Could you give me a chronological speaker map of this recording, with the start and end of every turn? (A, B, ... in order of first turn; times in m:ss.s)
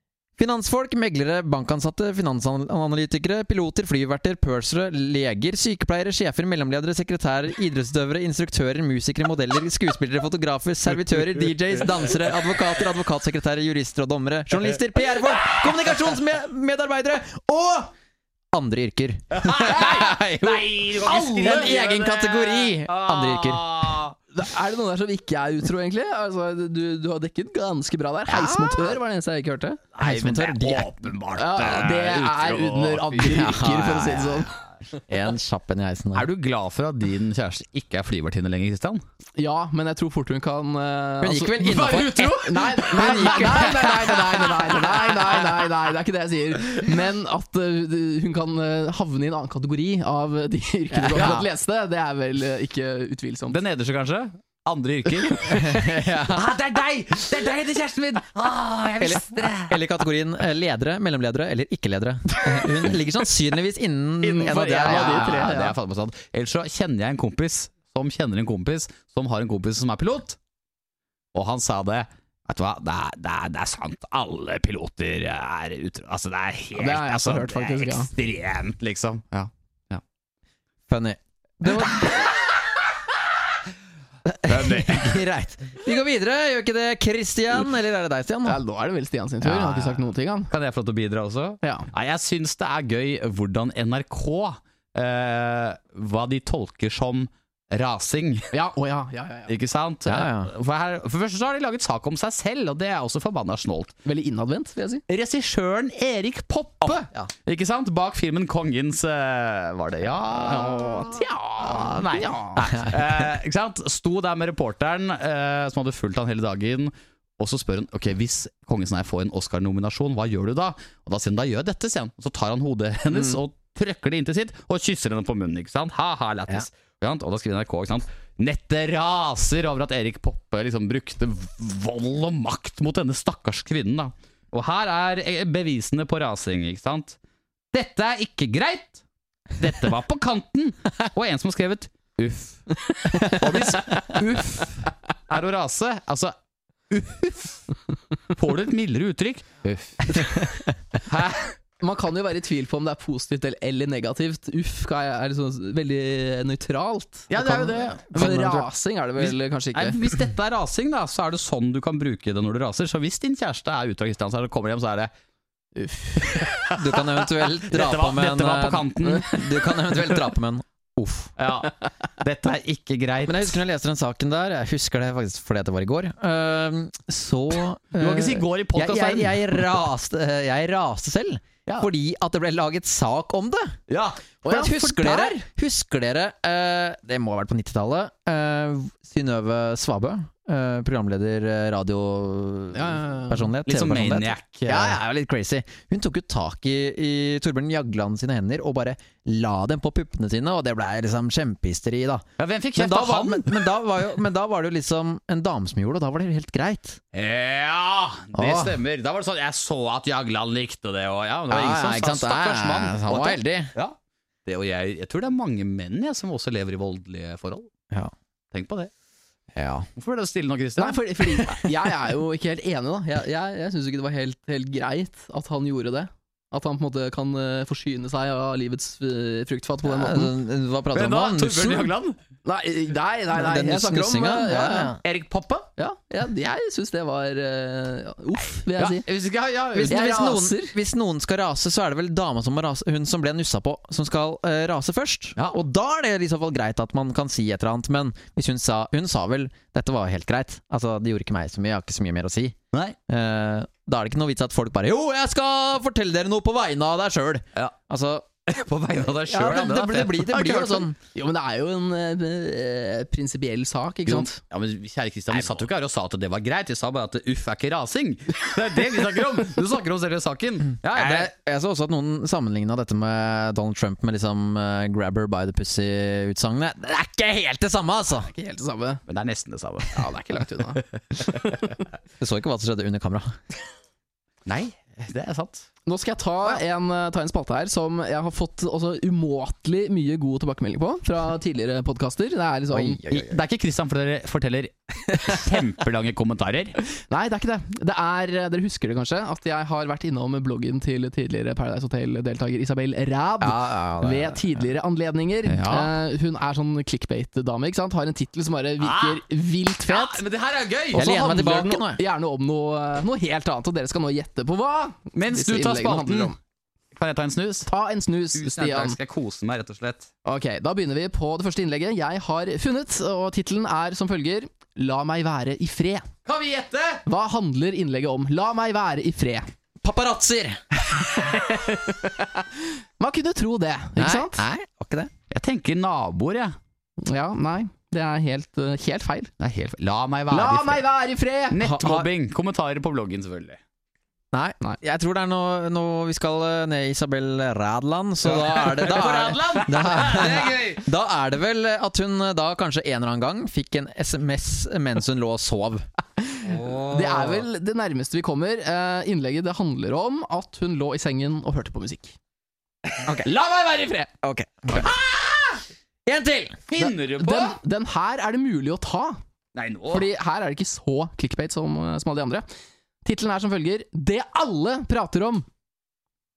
0:00.4-0:17.9 A
0:18.5-0:23.8 A
0:19.3-0:24.1 B
0:21.0-0:21.8 C
0:24.3-0:29.8 C
0:28.3-0:28.8 A
0:29.9-0:33.5 B
0:30.0-0:30.9 A
0:31.4-0:34.5 C
0:33.2-0:34.5 A
0:35.1-0:36.3 A
0:36.1-0:39.0 B
0:39.4-0:53.6 C
0:41.2-0:44.1 A
0:41.6-0:44.8 B
0:50.9-0:51.5 A
0:53.5-0:59.8 B
0:55.4-0:56.4 A
0:59.0-1:05.6 A
1:04.2-1:10.4 B
1:04.4-1:05.7 C
1:11.3-1:20.0 B
1:16.8-1:18.1 C
1:20.9-1:22.2 A
1:24.2-1:28.6 A
1:24.4-1:25.2 B
1:28.4-1:30.5 C
1:29.4-1:29.9 A
1:30.5-1:38.5 B
1:31.6-1:31.9 C
1:38.5-1:39.5 C
1:39.5-1:43.9 B
1:40.0-1:40.5 A
1:44.0-1:45.0 C
1:45.1-2:17.2 B
1:46.8-1:47.3 A
1:50.4-1:52.6 C
2:03.1-2:03.4 A
2:17.7-2:19.0 B
2:19.6-2:24.7 B
2:23.1-2:24.2 C
2:25.3-2:26.3 B
2:26.9-2:27.7 B
2:28.3-2:30.3 B
2:31.0-2:31.5 B
2:31.8-2:40.1 C
2:37.3-2:38.2 B
2:38.1-2:38.7 A
2:39.2-2:45.1 B
2:45.7-2:46.4 C
2:46.2-2:49.4 B
2:46.7-2:51.3 A
2:51.4-2:53.6 B
2:53.2-3:03.8 A
2:58.0-2:59.7 B
3:03.9-3:04.2 B
3:04.4-3:05.4 C
3:04.4-3:22.2 A
3:12.7-3:13.5 C
3:13.6-3:15.0 B
3:22.4-3:23.6 B
3:22.8-3:27.0 A
3:27.1-3:37.7 B
3:28.3-3:28.8 A
3:31.5-3:33.7 A
3:38.5-3:38.9 B
3:39.5-3:39.9 A
3:40.0-3:41.4 B
3:40.8-3:50.3 C
3:49.8-3:51.9 A
3:50.9-3:52.2 B
3:52.4-3:55.0 C
3:53.3-3:55.0 A
3:55.0-3:55.7 B
3:55.8-3:59.0 C
3:58.7-4:00.1 B
3:59.7-4:12.6 A
3:59.9-4:00.7 C
4:13.1-4:18.3 A
4:18.4-4:20.7 B
4:19.2-4:21.0 A
4:20.4-4:24.4 C
4:24.0-4:31.3 B
4:30.8-4:38.3 A
4:38.3-4:39.0 C
4:39.1-4:40.1 B
4:39.9-4:41.7 C
4:42.2-4:43.4 A
4:44.4-4:45.7 B
4:45.8-4:53.0 C
4:52.7-4:53.4 A
4:53.1-4:56.8 B
4:57.1-5:10.2 C
5:03.4-5:04.4 A
5:05.4-5:05.9 B
5:08.8-5:09.2 B
5:09.9-5:11.0 B
5:10.9-5:12.0 A
5:10.9-5:16.4 C
5:15.1-5:16.3 B
5:16.9-5:17.7 B
5:17.7-5:19.0 C
5:18.3-5:20.1 B
5:20.2-5:26.1 C
5:26.2-5:27.0 B
5:27.0-5:29.5 C
5:29.8-5:30.6 A
5:31.2-5:32.4 C
5:33.0-5:34.4 C
5:34.0-5:35.1 A
5:35.3-5:36.6 B
5:37.0-5:39.3 C
5:39.4-5:40.8 B
5:40.3-5:41.6 C
5:41.5-5:43.6 B
5:41.6-5:42.1 A
5:44.3-5:55.8 A
5:48.2-5:50.8 B
5:56.3-6:02.1 C
5:56.4-5:57.4 A
6:03.0-6:03.3 A
6:03.3-6:04.1 C
6:04.2-6:05.0 A
6:04.8-6:05.6 B
6:06.0-6:06.6 A
6:06.7-6:07.6 B
6:06.8-6:09.2 C
6:09.5-6:10.1 B
6:09.9-6:12.4 C
6:13.0-6:15.4 C